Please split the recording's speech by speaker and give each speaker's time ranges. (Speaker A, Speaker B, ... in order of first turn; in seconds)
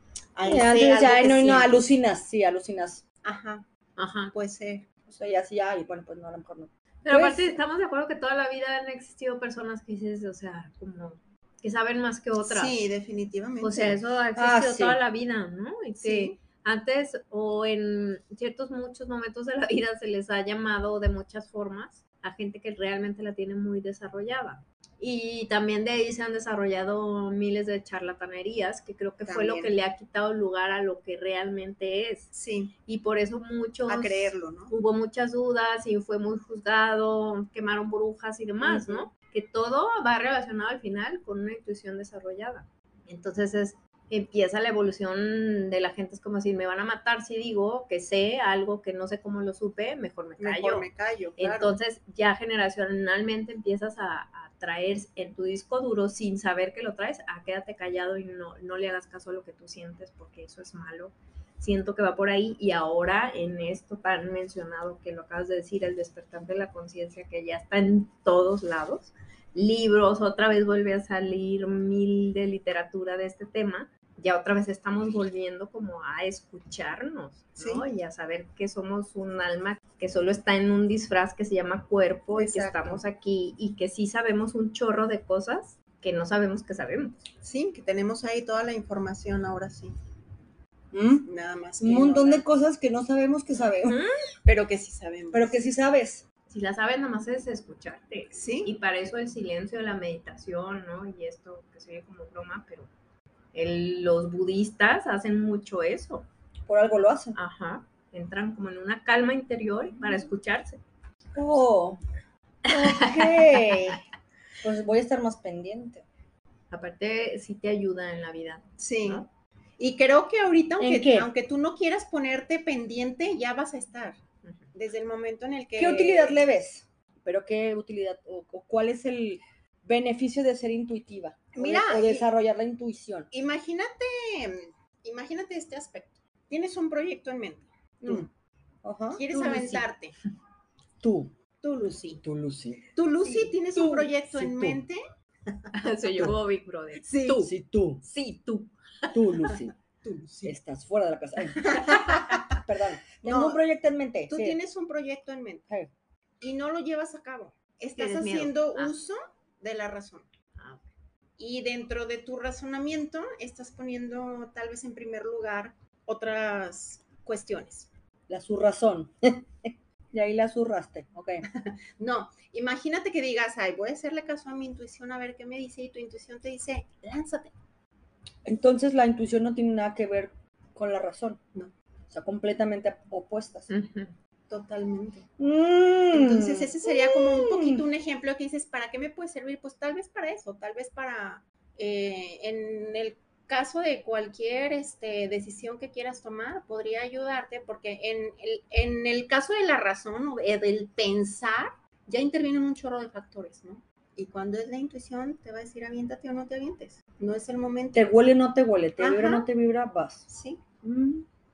Speaker A: 0.3-1.9, 3.2-3.7, 4.3-4.8, 12.4-14.0, 16.0-16.4, 29.2-29.7, 32.3-32.7, 33.9-34.7, 38.6-39.1, 50.4-51.7, 77.6-77.8, 82.3-83.0, 87.4-89.9, 91.2-92.5, 94.4-95.6, 98.3-98.7, 118.8-119.2, 119.8-124.2, 124.7-126.4, 131.5-132.3, 133.3-138.3, 139.1-140.1, 141.6-142.2, 142.9-145.7, 147.0-147.4, 150.0-150.6, 151.6-152.6, 153.2-153.6, 154.3-155.7, 156.4-160.3, 161.4-167.9, 171.5-177.5, 184.5-185.3, 186.1-208.1, 209.0-209.5, 210.3-210.6
Speaker B: 0.5-3.0, 5.0-7.6, 14.3-15.0, 90.9-91.3, 91.8-94.0, 95.3-96.2, 106.7-107.4, 111.3-112.0, 112.7-114.0, 114.6-116.0, 120.8-121.3, 125.8-133.3, 138.8-139.8, 141.0-141.3, 142.2-144.8, 147.4-148.0, 149.1-149.7, 150.4-154.6, 168.3-171.4, 178.4-181.4, 182.1-183.7, 185.4-187.8, 207.9-210.3, 210.8-211.2
Speaker C: 4.0-4.3, 7.0-12.8, 13.6-32.3, 32.9-87.3, 93.8-94.1, 96.5-102.9, 103.5-106.3, 107.3-110.8, 112.7-114.0, 116.7-119.3, 124.4-124.7, 145.7-149.5, 158.0-158.9, 160.6-160.8, 183.7-184.1